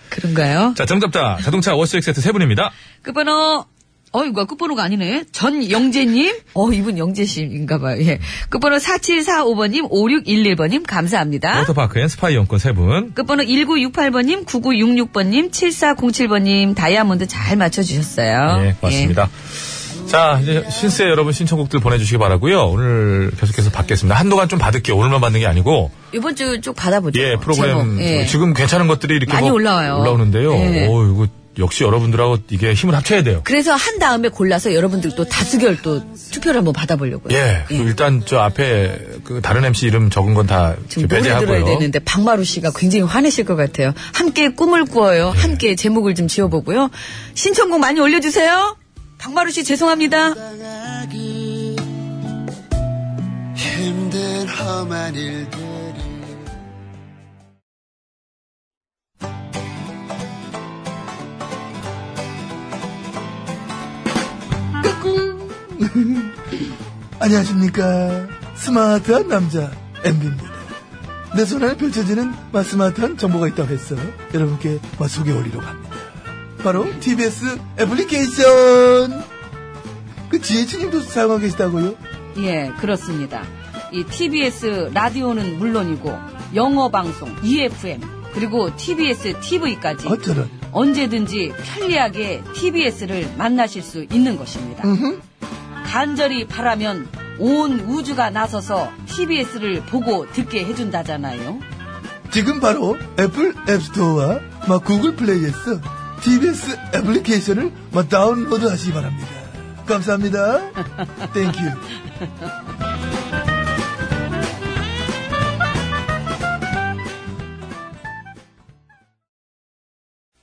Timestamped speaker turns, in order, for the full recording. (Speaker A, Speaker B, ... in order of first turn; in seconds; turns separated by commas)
Speaker A: 0.1-0.8, Speaker B: 0.8-2.8, Speaker A: 3.0-11.7, Speaker B: 11.5-13.1, Speaker A: 13.2-19.2, Speaker B: 18.5-25.9, Speaker A: 26.1-28.4, Speaker B: 27.1-33.5, Speaker A: 29.3-31.0, Speaker A: 33.4-37.9, Speaker B: 37.3-41.9, Speaker A: 40.9-50.4, Speaker B: 45.4-45.6, Speaker C: 50.4-51.9, Speaker C: 53.6-56.3, Speaker D: 64.8-66.3, Speaker D: 67.2-70.7, Speaker D: 71.3-79.3, Speaker D: 80.3-82.0, Speaker A: 82.3-94.9, Speaker D: 90.0-90.5, Speaker D: 94.8-95.2, Speaker A: 95.8-101.7, Speaker D: 102.3-111.9